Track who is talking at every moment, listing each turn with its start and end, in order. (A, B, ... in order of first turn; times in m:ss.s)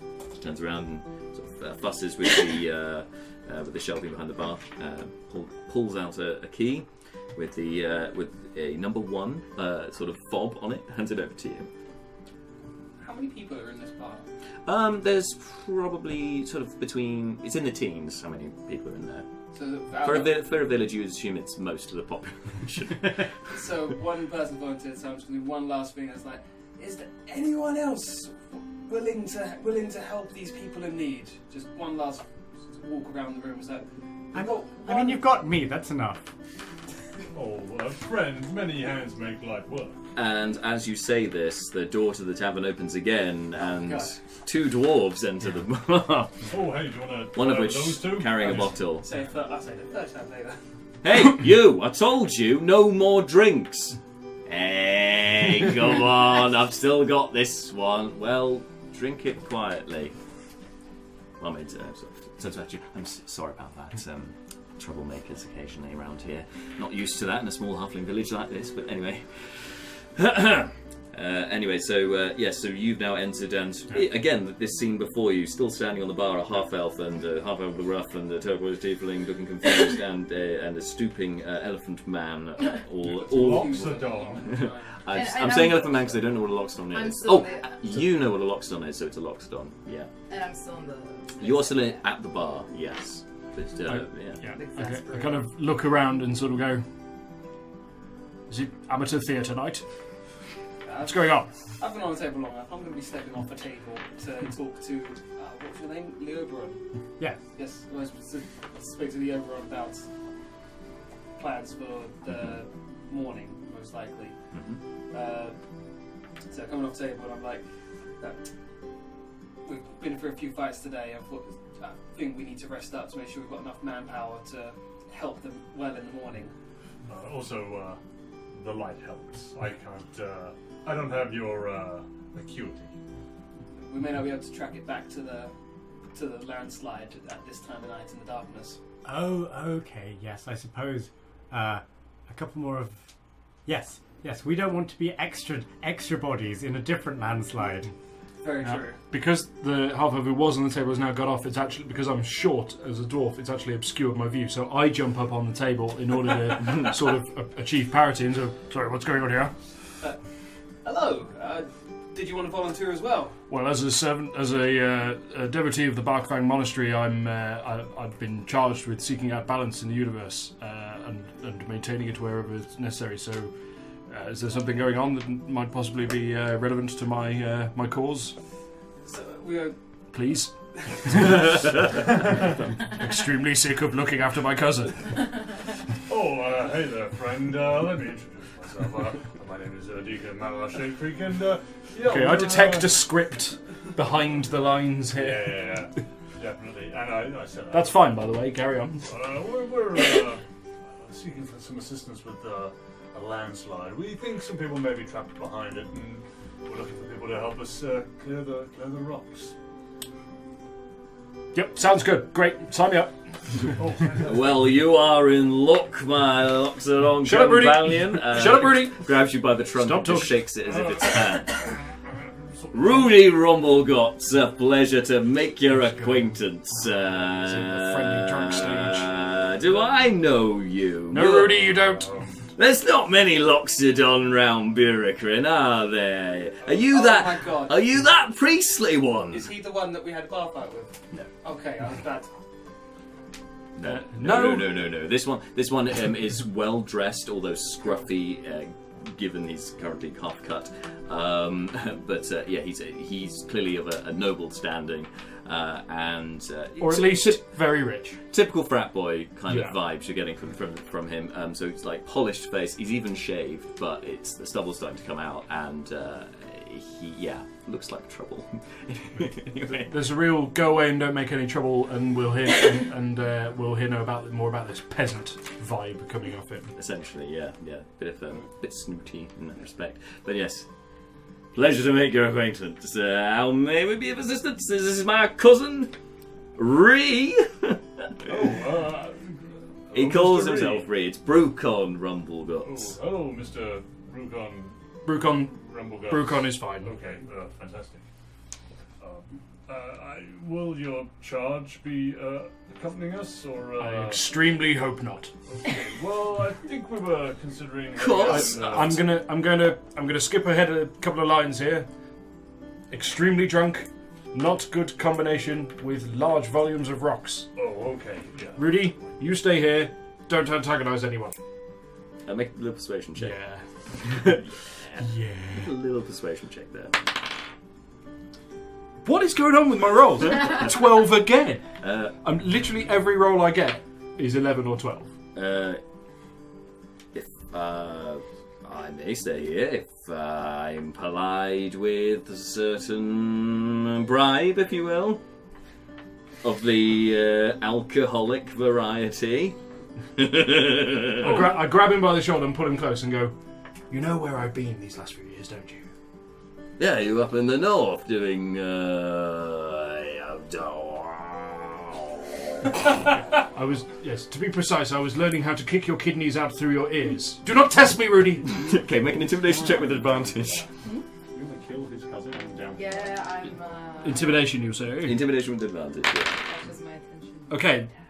0:00.4-0:11.7 A
0:13.0-0:14.3 B
0:14.6-0:19.2 A
0:19.5-0:20.4 B
0:20.0-0:23.3 A
0:23.5-0:35.3 B
0:34.3-0:36.3 C
0:37.3-0:40.0 D
0:40.1-0:46.5 A
0:43.6-0:44.2 B
0:46.4-0:48.8 D
0:47.3-0:49.0 A
0:48.4-0:50.6 B
0:51.0-1:00.1 A
1:01.4-1:30.1 A
1:23.0-1:24.7 D
1:23.2-1:25.1 B
1:25.1-1:26.2 E
1:26.9-1:27.8 E
1:30.3-1:32.0 E
1:31.4-1:34.4 A
1:33.8-1:36.8 F
1:34.5-1:35.5 E
1:38.5-1:39.8 F
1:40.8-1:46.8 B
1:41.0-1:41.5 F
1:47.5-1:50.0 B
1:51.4-1:54.3 B
1:54.5-1:54.8 A
1:55.1-1:55.6 B
1:56.5-1:57.6 B
1:58.2-1:58.4 B
1:59.6-2:06.5 B
2:07.1-2:08.0 D
2:08.5-2:12.9 D
2:13.8-2:15.5 B
2:16.1-2:18.8 B
2:19.0-2:23.0 C
2:23.6-2:27.9 C
2:28.4-2:29.0 B
2:28.6-2:39.5 F
2:40.8-2:43.3 B
2:43.5-2:53.5 F
2:54.1-2:58.4 F
2:59.0-2:59.8 B
3:00.1-3:02.0 F
3:02.8-3:05.1 F
3:06.1-3:13.0 D
3:12.0-3:15.7 F
3:15.1-3:18.0 D
3:17.7-3:19.1 F
3:19.0-3:29.5 D
3:31.5-3:33.7 F
3:33.7-3:34.6 D
3:34.2-3:41.6 A
3:37.2-3:39.1 F
3:39.7-3:40.4 F
3:40.6-3:43.2 D
3:42.7-3:51.8 A
3:47.2-3:49.1 F
3:49.6-3:49.9 D
3:51.1-3:52.1 F
3:51.8-3:52.4 D
3:52.5-3:59.5 A
3:56.8-3:57.8 B
3:59.3-4:02.3 B
4:03.8-4:17.4 A
4:03.8-4:04.7 F
4:16.8-4:18.2 F
4:18.3-4:30.0 A
4:19.5-4:19.8 F
4:29.8-4:36.7 F
4:36.8-4:40.7 A
4:41.5-4:45.9 A
4:46.6-4:48.3 A
4:48.2-4:50.9 D
4:49.9-4:53.0 A
4:52.6-4:58.0 D
4:55.0-4:56.9 F
4:59.0-5:04.4 D
5:03.8-5:05.3 F
5:05.5-5:09.0 D
5:08.0-5:09.0 A
5:08.2-5:11.9 F
5:12.9-5:17.5 F
5:17.6-5:19.2 D
5:18.6-5:21.3 F
5:22.2-5:23.4 A
5:23.2-5:24.4 F
5:24.1-5:27.0 A
5:25.0-5:25.7 F
5:29.0-5:31.6 F
5:31.8-5:32.2 A
5:32.2-5:35.1 F
5:35.3-5:35.8 A
5:37.1-5:45.2 A
5:46.4-5:49.6 A
5:50.2-5:51.6 A
5:51.2-5:53.4 F
5:53.9-5:55.8 F
5:56.8-6:02.0 A
6:03.3-6:08.6 F
6:08.5-6:10.7 A
6:09.4-6:10.4 D
6:11.3-6:13.1 D
6:12.8-6:14.4 E
6:14.0-6:15.2 F
6:15.0-6:16.4 A
6:16.4-6:17.7 E
6:17.5-6:17.9 F